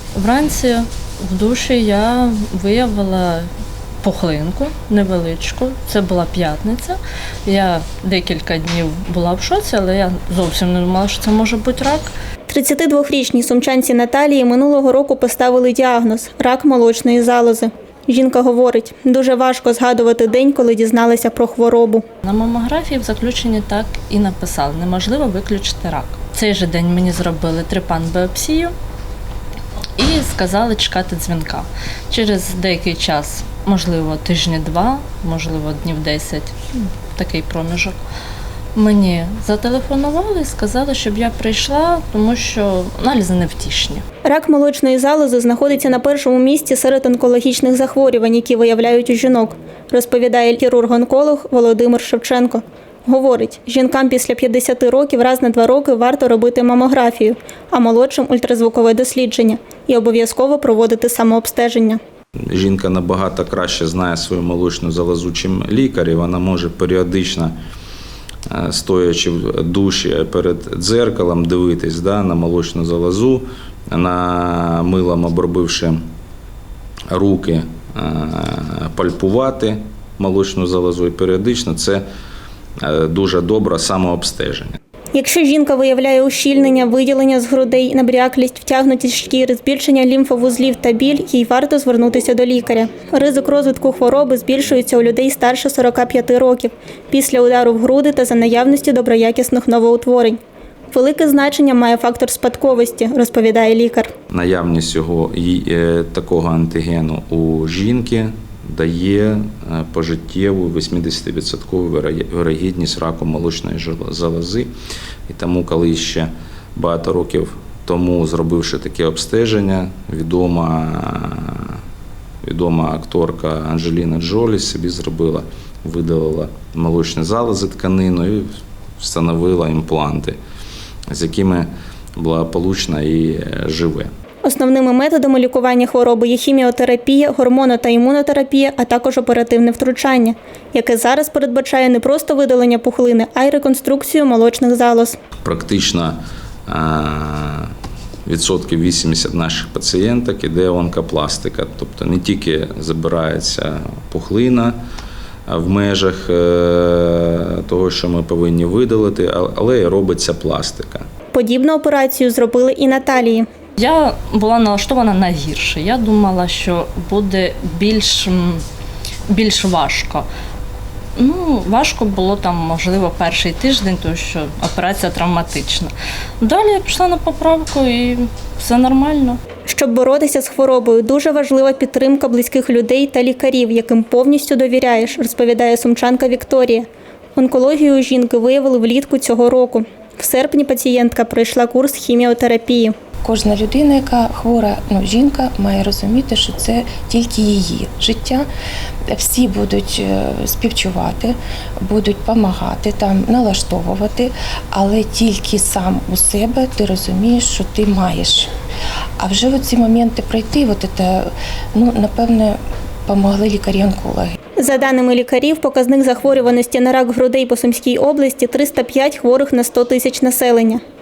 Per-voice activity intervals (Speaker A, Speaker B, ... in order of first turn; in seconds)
Speaker A: 0.1-3.5, 4.0-12.1, 22.2-28.7, 30.0-38.0, 38.8-44.0, 163.8-168.6, 169.3-170.3, 171.2-179.4
Speaker B: 12.5-22.0, 44.2-62.0, 85.1-100.4, 100.9-104.1, 134.4-145.2, 161.3-163.5, 179.7-192.9, 214.6-220.8
Speaker C: 62.5-67.6, 68.5-76.0, 77.1-82.0, 82.8-84.8, 104.3-114.7, 115.3-121.8, 122.4-128.5, 129.0-130.4, 131.1-134.1, 145.4-147.7, 148.3-154.8, 155.5-161.1
Speaker D: 193.2-198.5, 199.1-208.5, 209.2-214.3